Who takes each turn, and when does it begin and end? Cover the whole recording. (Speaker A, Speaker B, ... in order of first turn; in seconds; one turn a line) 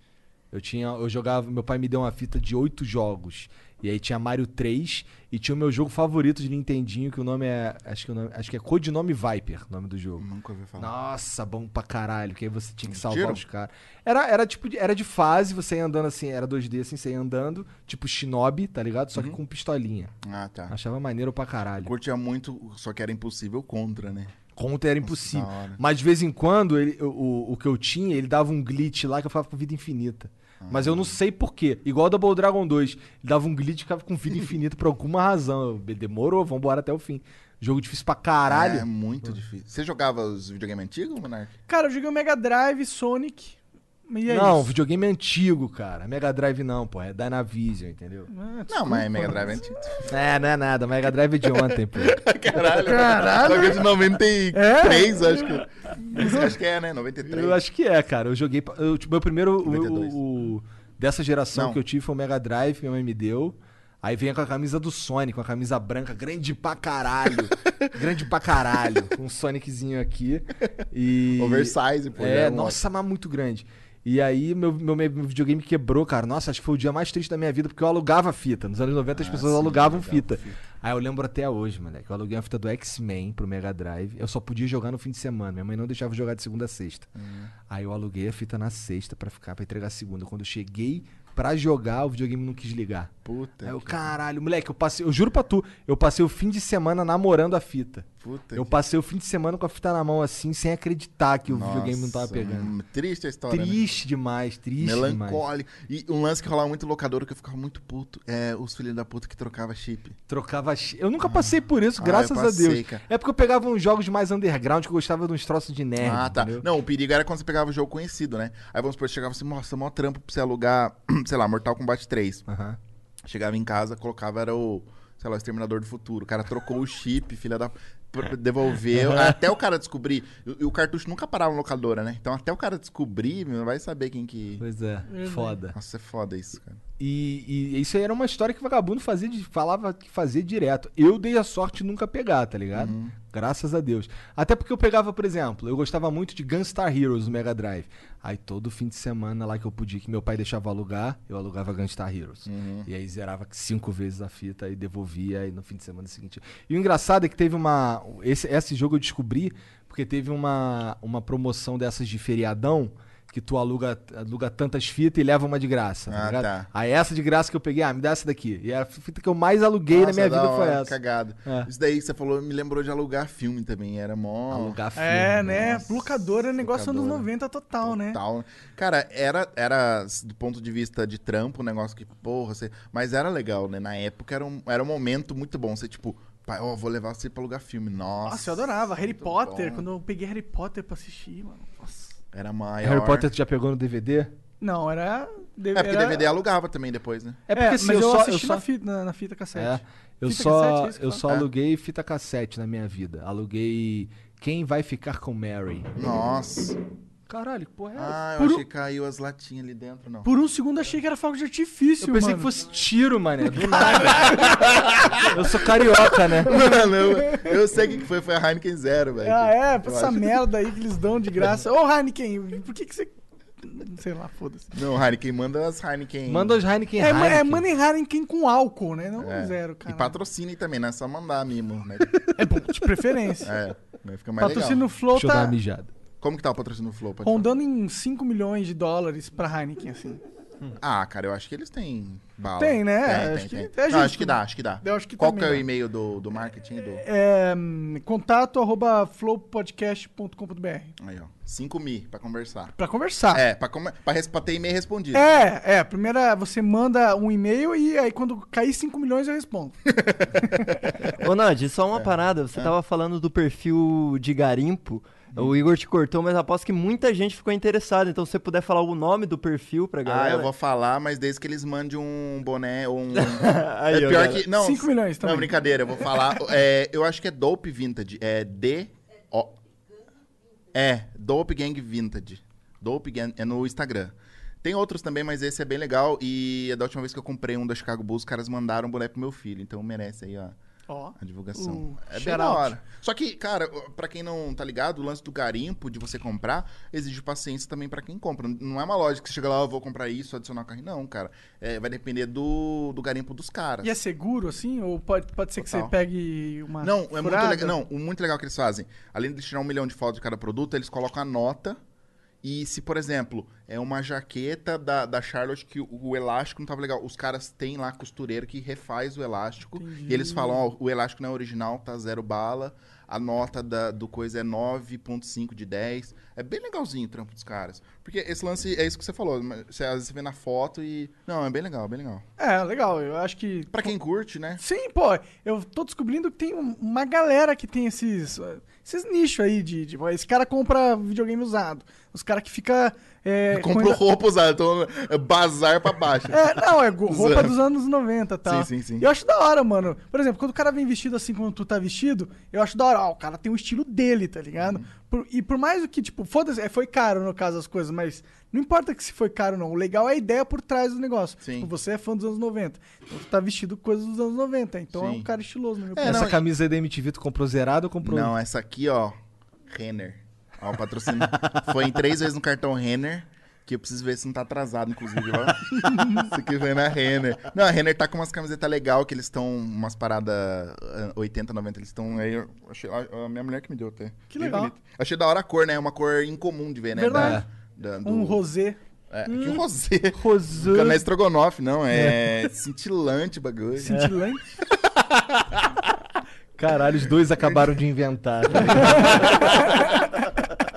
Speaker A: 0.5-10.3
Speaker B: 10.2-10.9
Speaker A: 10.8-20.1
Speaker B: 12.9-13.4
Speaker B: 20.2-20.7
Speaker A: 20.7-21.9
Speaker B: 21.8-24.4
Speaker A: 24.6-38.9
Speaker B: 25.0-25.8
Speaker B: 30.6-31.2
Speaker B: 38.5-41.5
Speaker C: 41.7-43.6
Speaker C: 44.1-44.7
Speaker A: 44.3-48.3
Speaker C: 48.3-49.6
Speaker B: 48.7-50.1
Speaker A: 50.1-52.2
Speaker B: 51.7-57.6
Speaker C: 52.8-53.9
Speaker C: 54.5-55.5
Speaker C: 56.1-56.5
Speaker A: 57.2-87.1
Speaker B: 59.6-60.2
Speaker B: 61.5-61.8
Speaker B: 71.4-72.8
Speaker B: 79.1-80.6
Speaker B: 87.2-87.5
Speaker A: 87.7-93.1
Speaker B: 93.2-94.1
Speaker A: 93.6-102.7
Speaker B: 98.2-98.7
Speaker B: 101.5-103.8
Speaker A: 103.5-105.4
Speaker B: 104.8-110.2
Speaker A: 110.3-116.7
Speaker B: 111.2-113.0
Speaker B: 116.0-122.4
Speaker A: 122.5-122.8
Speaker B: 123.2-134.6
Speaker A: 128.9-129.4
Speaker A: 134.6-135.8
Speaker C: 135.1-135.6
Speaker B: 135.7-136.8
Speaker A: 137.0-170.9
Speaker B: 142.7-143.2
Speaker B: 152.5-152.9
Speaker B: 166.1-166.7
Speaker B: 169.9-174.8
Speaker A: 174.5-175.7
Speaker C: 175.0-178.2
Speaker B: 175.4-177.3
Speaker B: 177.8-189.9
Speaker C: 188.3-192.2
Speaker B: 192.3-193.3
Speaker A: 192.8-194.3
Speaker C: 194.6-196.3
Speaker B: 195.7-197.4
Speaker A: 197.5-198.6
Speaker C: 197.5-201.2
Speaker A: 199.6-205.9
Speaker B: 206.0-206.8
Speaker A: 207.3-208.2
Speaker B: 208.0-210.3
Speaker C: 208.4-208.6
Speaker C: 210.2-212.5
Speaker A: 212.0-214.6
Speaker C: 213.8-214.5
Speaker B: 214.0-215.4
Speaker A: 215.3-216.6
Speaker B: 216.4-220.4
Speaker C: 216.5-217.5
Speaker C: 219.2-224.7
Speaker B: 224.7-226.6
Speaker A: 226.3-227.7
Speaker C: 227.0-230.2
Speaker B: 229.2-232.2
Speaker C: 232.4-233.5
Speaker B: 233.4-234.8
Speaker C: 234.4-235.6
Speaker A: 235.1-235.9
Speaker B: 236.2-237.5
Speaker C: 237.2-240.2
Speaker B: 240.8-247.1
Speaker C: 242.6-245.7
Speaker C: 247.0-250.9
Speaker B: 251.0-252.8
Speaker C: 252.8-253.4
Speaker B: 253.3-255.3
Speaker C: 255.1-259.8
Speaker B: 260.0-260.3
Speaker D: 261.2-270.5
Speaker B: 261.9-262.7
Speaker B: 270.1-279.6
Speaker D: 273.2-274.4
Speaker C: 274.6-275.6
Speaker B: 280.7-290.6
Speaker C: 290.9-292.8
Speaker B: 291.2-304.0
Speaker C: 303.8-307.8
Speaker B: 305.6-305.9
Speaker B: 306.8-311.8
Speaker B: 312.4-332.2
Speaker C: 319.8-320.7
Speaker C: 332.4-333.9
Speaker B: 333.7-334.6
Speaker C: 334.6-344.0
Speaker B: 343.5-346.5
Speaker C: 346.3-366.3
Speaker B: 347.1-347.6
Speaker B: 348.5-349.1
Speaker B: 354.6-354.9
Speaker B: 361.4-361.7
Speaker B: 364.9-365.3
Speaker B: 365.9-366.4
Speaker A: 366.0-368.3
Speaker B: 368.0-369.1
Speaker B: 369.7-388.4
Speaker C: 375.8-376.3
Speaker C: 384.3-384.7
Speaker C: 387.0-387.4
Speaker A: 387.1-387.5
Speaker C: 388.0-388.8
Speaker B: 389.1-394.0
Speaker A: 389.3-389.6
Speaker A: 390.1-391.1
Speaker A: 391.9-392.3
Speaker C: 393.8-394.4
Speaker A: 393.9-394.2
Speaker A: 396.6-399.7
Speaker B: 398.6-399.9